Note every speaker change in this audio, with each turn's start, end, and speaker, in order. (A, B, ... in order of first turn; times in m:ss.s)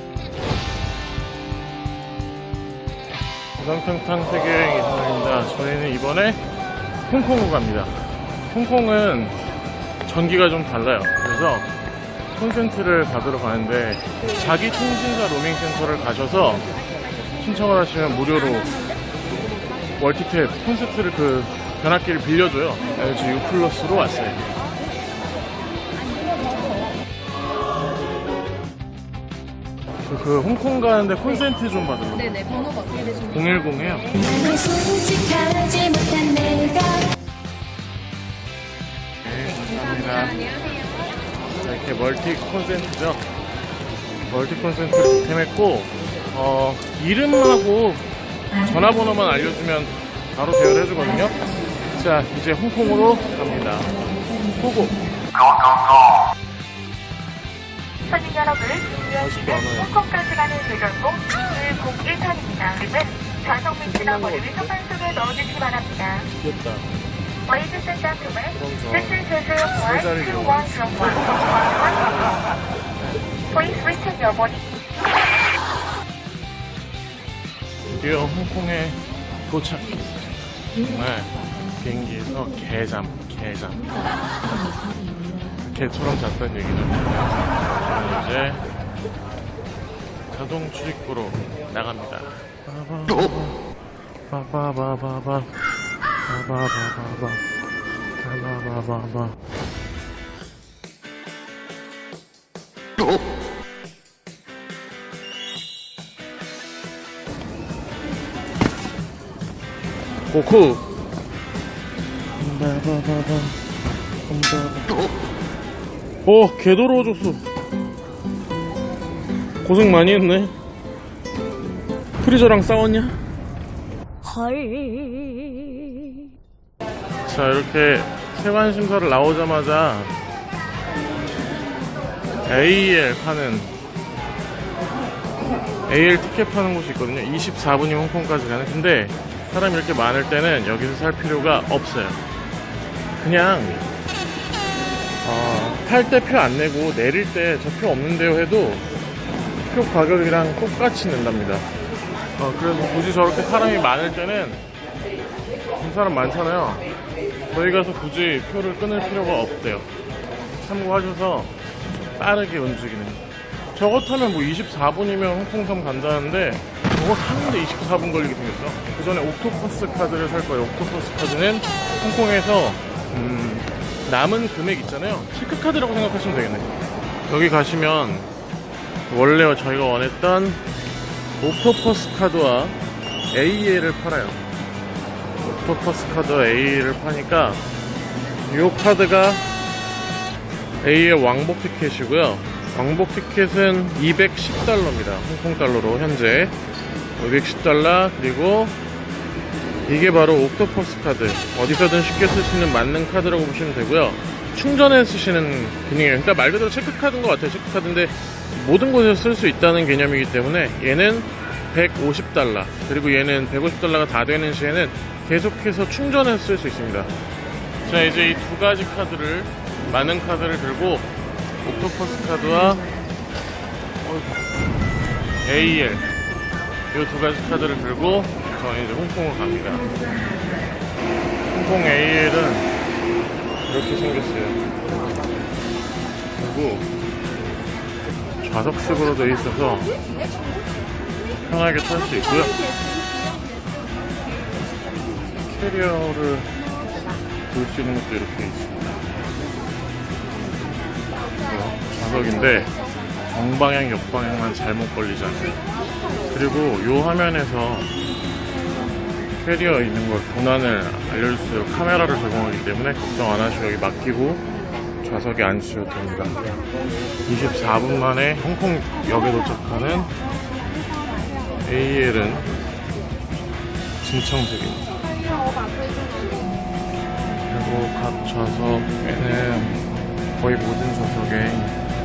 0:03.6-0:06.4 A
0:07.1-0:09.4 A
0:10.0-0:11.7 A
0:12.4-0:16.7 A
0:17.4-0:18.8 A
0:20.0-0:24.4 A
0:30.0-0:34.2 A
0:34.2-0:37.1 B
0:39.2-0:40.5 A
0:41.5-0:43.2 A
0:44.3-0:48.1 A
0:48.6-0:51.4 A
0:51.9-0:53.9 A
0:54.5-0:55.0 A
0:58.0-1:06.3 C
0:58.9-1:00.0 A
1:03.8-1:04.7 A
1:06.4-1:06.9 A
1:07.4-1:12.1 C
1:08.5-1:11.5 A
1:13.5-1:14.7 C
1:17.9-1:23.9 A
1:25.6-1:28.6 A
1:30.3-1:33.6 A
1:34.3-1:35.5 A
1:36.2-1:37.4 A
1:38.2-1:39.4 A
1:50.3-1:50.8 A
1:52.4-1:53.6 A
1:54.3-1:55.0 A
1:56.2-1:57.4 A
1:59.6-2:00.5 A
2:02.2-2:03.2 A
2:04.4-2:05.6 B
2:07.2-2:10.1 A
2:12.4-2:13.7 A
2:15.9-2:22.2 A
2:23.2-2:23.9 A
2:25.2-2:28.9 A
2:29.7-2:31.7 A
2:32.4-2:34.6 A
2:35.8-2:36.8 A
2:37.5-2:39.9 A
2:40.6-2:43.2 A
2:43.7-2:56.7 A
2:57.3-2:58.3 A
2:59.1-3:00.6 A
3:01.4-3:02.8 A
3:03.3-3:04.4 A
3:05.5-3:07.6 A
3:08.5-3:09.4 A
3:10.8-3:16.5 A
3:17.2-3:18.8 A
3:19.9-3:37.1 A
3:37.8-3:41.1 A
3:41.6-3:42.9 A
3:44.0-3:44.4 A
3:45.4-3:46.1 A
3:46.9-3:49.8 A
3:51.5-3:52.7 A
3:53.6-3:54.6 A
3:56.4-3:56.9 A
3:58.4-3:59.9 A
4:01.4-4:02.6 A
4:05.4-4:06.5 A
4:07.5-4:09.0 A
4:11.4-4:12.7 A
4:13.3-4:15.6 A
4:16.3-4:17.9 A
4:19.3-4:24.4 A
4:25.0-4:26.4 A
4:27.2-4:30.1 A
4:31.6-4:32.5 A
4:34.0-4:34.9 A
4:37.5-4:39.9 A
4:40.4-4:41.8 A